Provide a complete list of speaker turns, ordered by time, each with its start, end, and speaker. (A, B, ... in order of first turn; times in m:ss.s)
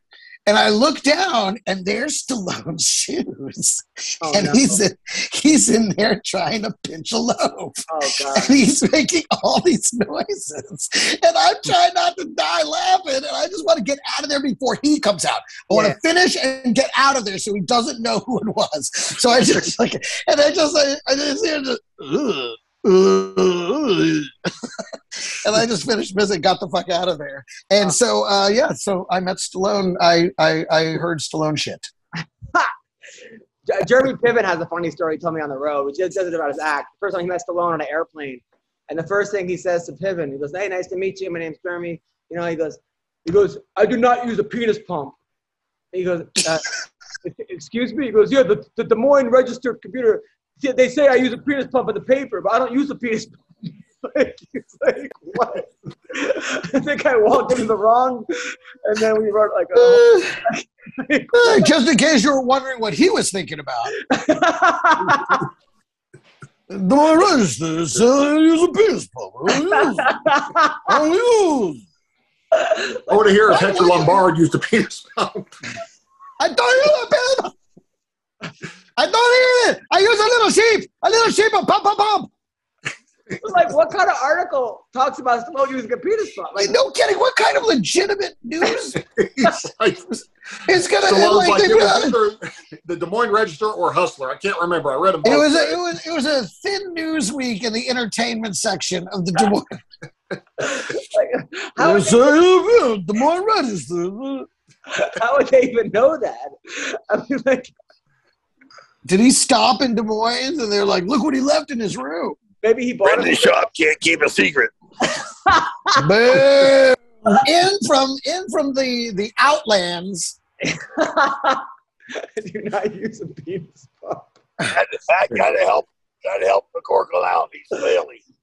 0:00.5-0:31.9 A
0:04.2-0:04.8 B
0:07.9-0:08.6 B
0:15.7-0:16.0 B
0:33.7-0:45.2 B
0:45.9-0:53.4 B
0:54.0-1:01.7 B
0:59.8-1:00.4 A
1:01.3-1:04.0 A
1:04.1-1:05.4 B
1:06.7-1:10.2 A
1:09.7-1:11.0 B
1:10.8-1:11.8 A
1:12.5-1:14.1 B
1:13.1-1:15.5 C
1:16.4-1:17.6 A
1:19.0-1:22.3 A
1:23.4-1:26.8 B
1:26.6-1:29.0 A
1:29.2-1:30.2 C
1:30.7-1:32.2 A
1:31.0-1:35.8 C
1:35.2-1:39.7 A
1:40.6-1:42.4 B
1:41.8-1:44.5 A
1:44.9-1:47.7 B
1:49.0-1:52.4 A
1:52.6-1:53.6 B
1:53.0-1:54.7 D
1:55.5-1:56.0 B
1:56.0-2:00.4 A
2:00.6-2:04.3 B
2:04.7-2:08.2 D